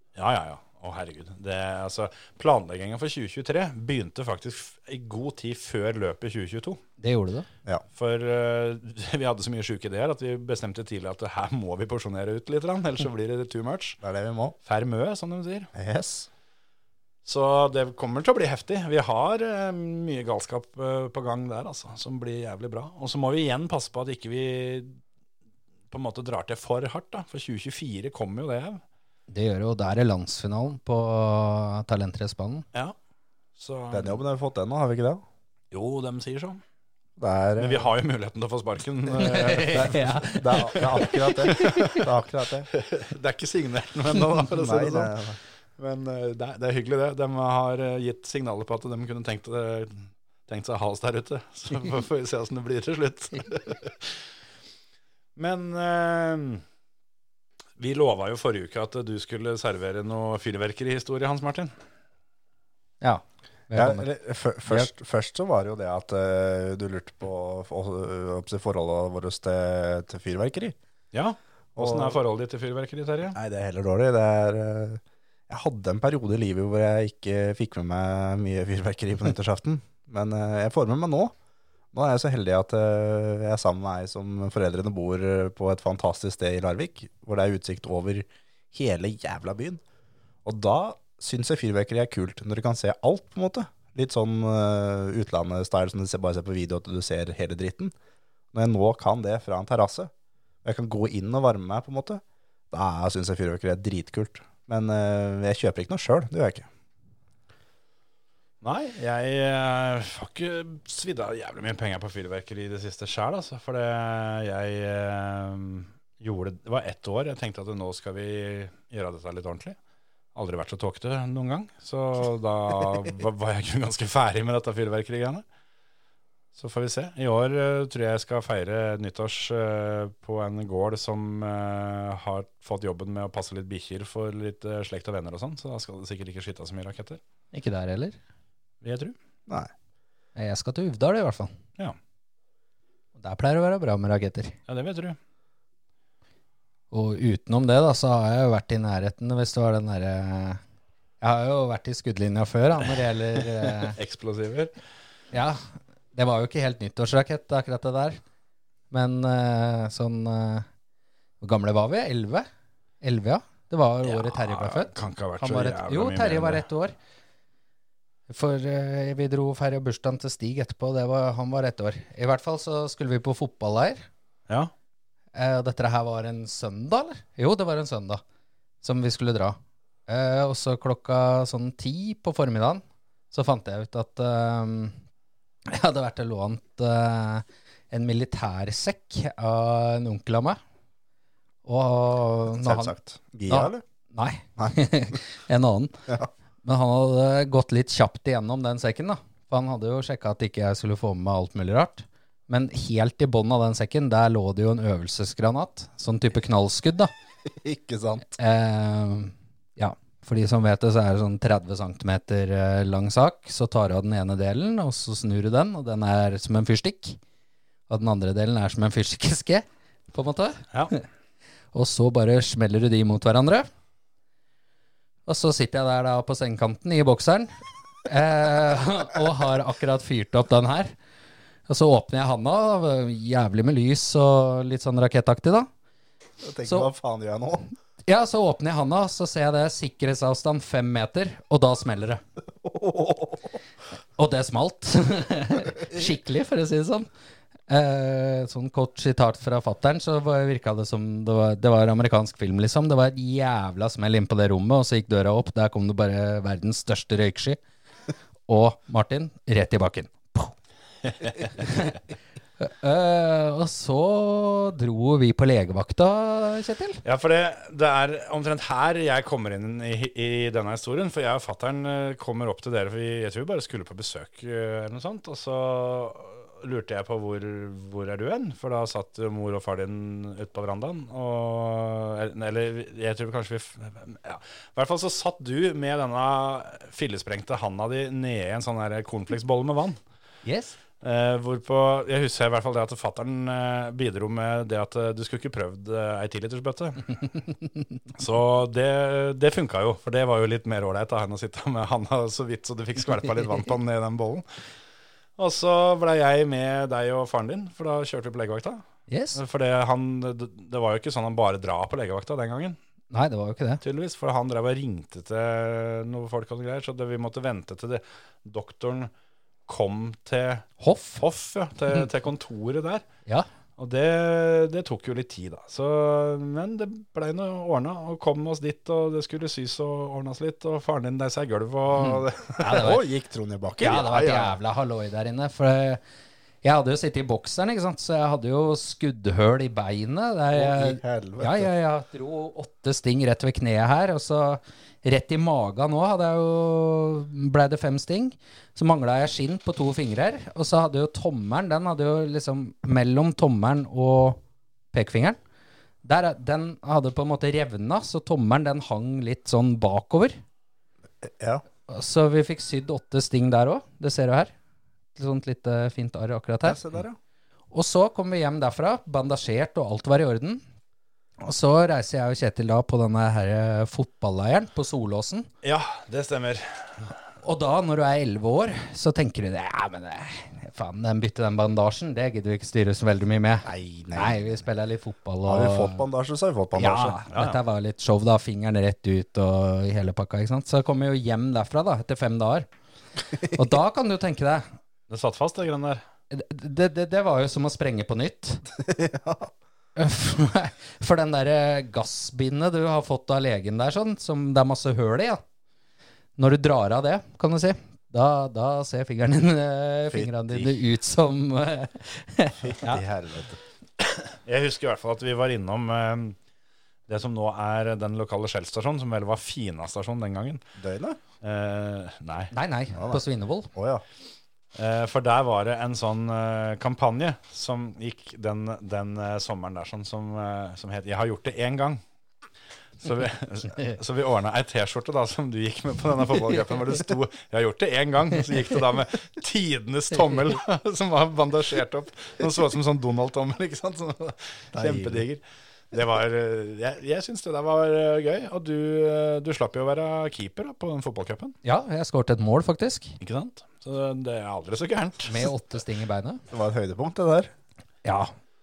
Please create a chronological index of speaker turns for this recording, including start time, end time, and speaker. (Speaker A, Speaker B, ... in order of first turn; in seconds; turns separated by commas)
Speaker A: 0.2-6.8, Speaker B: 7.0-7.5, Speaker A: 8.0-14.0, Speaker C: 14.0-14.6, Speaker A: 14.7-15.7, Speaker C: 15.7-16.3, Speaker A: 17.3-25.0, Speaker A: 25.9-28.8, Speaker B: 29.3-32.7, Speaker A: 33.6-34.2, Speaker C: 33.9-35.2, Speaker A: 35.7-36.6, Speaker C: 37.2-37.9, Speaker A: 37.6-42.1, Speaker B: 39.2-42.0, Speaker C: 39.7-42.7, Speaker A: 42.7-45.1, Speaker C: 44.5-45.4, Speaker A: 45.8-54.2, Speaker A: 55.4-56.6, Speaker A: 57.8-61.7, Speaker B: 63.0-64.1, Speaker C: 63.8-70.8, Speaker A: 71.1-73.4, Speaker C: 71.8-72.2, Speaker C: 73.3-81.3, Speaker C: 81.9-89.8, Speaker C: 90.5-97.9, Speaker C: 98.5-100.1, Speaker C: 100.6-106.7, Speaker A: 108.6-119.8, Speaker A: 120.3-125.4, Speaker A: 126.6-137.2, Speaker B: 137.5-138.2, Speaker A: 138.8-139.2, Speaker B: 140.4-141.5, Speaker B: 143.2-144.6, Speaker A: 144.7-145.2, Speaker B: 146.9-150.6, Speaker B: 151.2-154.0, Speaker A: 153.4-154.7, Speaker B: 155.3-158.2, Speaker B: 158.9-160.7, Speaker B: 161.4-162.5, Speaker B: 163.0-166.9, Speaker A: 164.0-166.6, Speaker B: 168.3-174.1, Speaker B: 175.3-178.2, Speaker B: 178.8-185.0, Speaker B: 185.7-190.6, Speaker B: 191.7-192.9, Speaker C: 192.5-193.8, Speaker B: 193.5-196.1, Speaker B: 196.6-207.1, Speaker C: 207.5-208.3, Speaker B: 208.3-217.2, Speaker B: 217.9-221.0, Speaker B: 221.7-223.7, Speaker B: 225.3-227.5, Speaker B: 228.1-230.9, Speaker B: 231.7-235.7, Speaker C: 236.4-237.7, Speaker B: 236.7-236.9, Speaker B: 238.1-242.2, Speaker C: 242.6-243.6, Speaker B: 244.2-247.1, Speaker B: 247.7-257.6, Speaker B: 258.5-260.5, Speaker B: 261.4-262.0, Speaker B: 262.6-267.0, Speaker A: 267.0-290.0, Speaker B: 290.4-290.8, Speaker A: 291.0-297.2, Speaker A: 298.1-304.5, Speaker A: 305.4-308.8, Speaker B: 309.1-309.4, Speaker A: 309.4-312.8, Speaker B: 313.1-313.8, Speaker A: 313.8-319.1, Speaker A: 319.7-323.1, Speaker B: 320.8-321.2, Speaker A: 323.8-332.9, Speaker B: 332.1-333.1, Speaker C: 332.5-334.5, Speaker B: 333.8-336.0, Speaker B: 336.6-354.4, Speaker C: 340.5-341.7, Speaker B: 354.9-355.4, Speaker B: 356.0-360.4, Speaker C: 361.2-361.6, Speaker B: 361.9-364.5, Speaker B: 365.1-366.8, Speaker C: 366.6-367.2, Speaker B: 367.7-370.6, Speaker B: 371.4-375.5, Speaker A: 375.6-377.1, Speaker B: 377.4-386.1, Speaker C: 383.6-384.6, Speaker C: 385.5-387.2, Speaker B: 386.8-392.7, Speaker A: 387.3-387.6, Speaker B: 393.4-394.7, Speaker A: 395.1-396.0, Speaker B: 396.3-398.6, Speaker C: 398.7-399.5, Speaker B: 400.0-405.4, Speaker B: 406.4-413.0, Speaker C: 410.1-410.8, Speaker C: 412.6-413.6, Speaker A: 414.3-416.4, Speaker A: 417.1-420.6, Speaker C: 420.8-421.2, Speaker A: 421.4-422.5, Speaker B: 422.5-423.7, Speaker C: 422.9-423.2, Speaker C: 423.7-424.0, Speaker A: 424.8-432.0, Speaker A: 433.0-451.6, Speaker C: 444.7-445.2, Speaker B: 451.6-453.2, Speaker A: 453.2-455.5, Speaker B: 455.2-456.4, Speaker C: 456.5-457.5, Speaker B: 458.1-458.3